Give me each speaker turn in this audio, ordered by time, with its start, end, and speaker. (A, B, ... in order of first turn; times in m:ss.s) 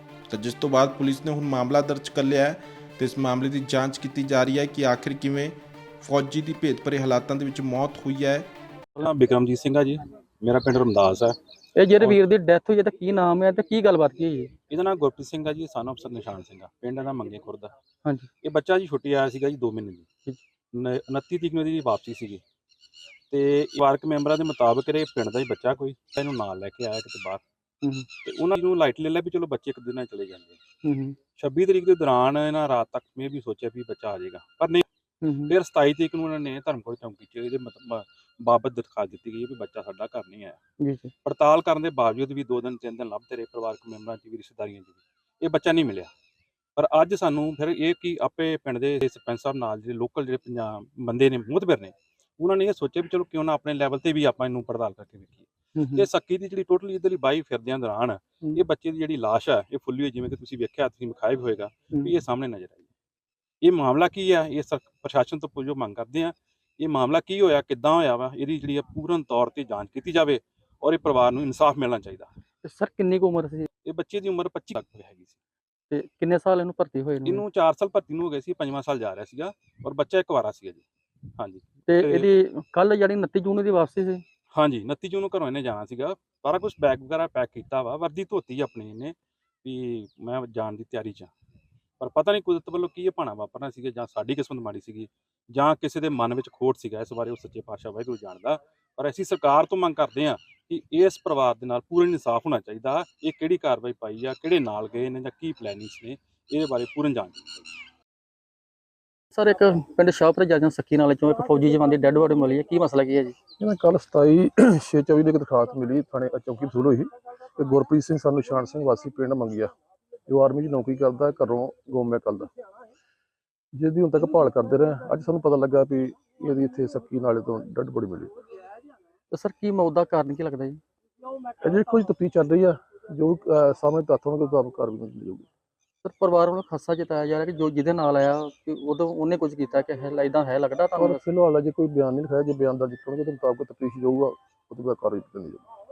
0:00.3-0:08.5 A
0:09.0-0:11.4 B
0:11.8-0:14.5 C
0:14.7-0:17.7 B
0:18.4-0:20.1 B
0:20.7-0:22.4 B
0:23.3-0:27.4 B
0:27.8-0:28.1 C
0:28.2-0:30.6 B
0:30.8-0:31.2 C
0:31.3-0:34.8 B
0:35.2-0:35.5 C
0:35.5-0:40.6 B
0:40.8-0:41.1 C
0:41.2-0:46.1 B
0:46.8-1:02.9 B
0:55.8-0:56.0 C
1:03.6-1:12.3 B
1:12.6-1:13.7 C
1:13.8-1:15.4 B
1:15.9-1:17.4 C
1:17.2-1:20.8 B
1:21.4-1:22.3 B
1:21.9-1:24.2 C
1:24.5-1:31.3 B
1:32.0-1:47.7 B
1:49.3-1:53.4 C
1:53.6-1:59.7 D
2:00.3-2:02.5 D
2:03.7-2:08.3 D
2:09.3-2:10.8 C
2:11.6-2:15.5 D
2:16.0-2:21.2 C
2:21.0-2:25.6 D